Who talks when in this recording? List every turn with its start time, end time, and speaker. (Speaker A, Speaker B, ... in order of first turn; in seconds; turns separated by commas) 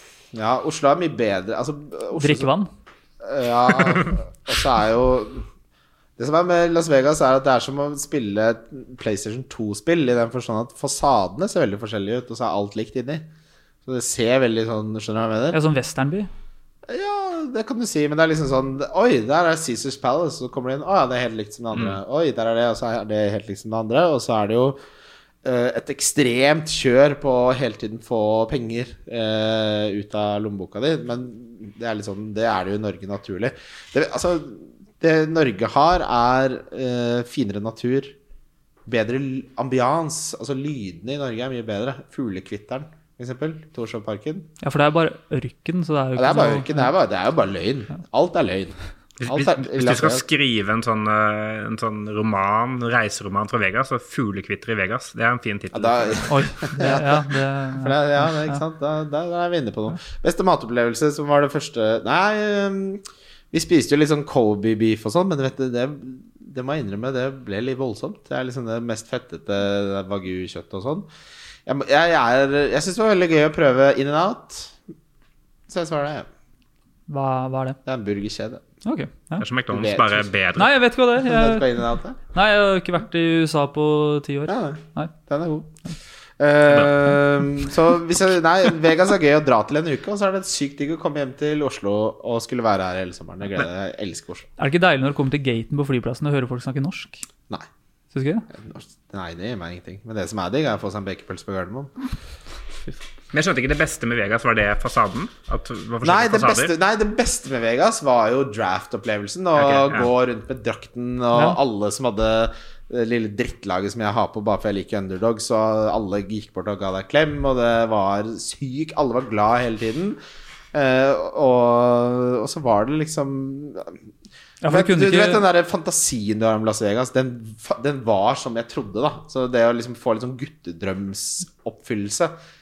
Speaker A: 0.3-2.5, Speaker B: 2.1-2.7, Speaker A: 3.2-5.4, Speaker A: 6.2-13.3, Speaker A: 13.8-15.6, Speaker B: 15.5-16.3, Speaker A: 16.9-24.8, Speaker A: 25.4-38.1, Speaker A: 38.9-44.5, Speaker B: 44.6-46.9, Speaker A: 46.1-50.2, Speaker C: 49.2-56.3, Speaker A: 55.7-57.2, Speaker B: 56.2-58.6, Speaker A: 57.7-71.1, Speaker A: 71.7-74.8, Speaker A: 75.7-76.3, Speaker B: 77.1-77.8, Speaker A: 77.8-78.6, Speaker B: 78.8-79.4, Speaker C: 79.4-80.7, Speaker A: 79.7-80.3, Speaker B: 80.6-81.8, Speaker A: 81.2-82.2, Speaker B: 82.3-85.1, Speaker A: 84.5-85.7, Speaker A: 86.4-94.5, Speaker C: 86.7-87.0, Speaker B: 94.6-97.2, Speaker B: 98.1-98.5, Speaker A: 98.5-101.9, Speaker C: 103.3-106.7, Speaker A: 106.0-120.2, Speaker C: 109.6-110.1, Speaker A: 120.7-124.0, Speaker B: 124.6-125.4, Speaker A: 124.7-132.3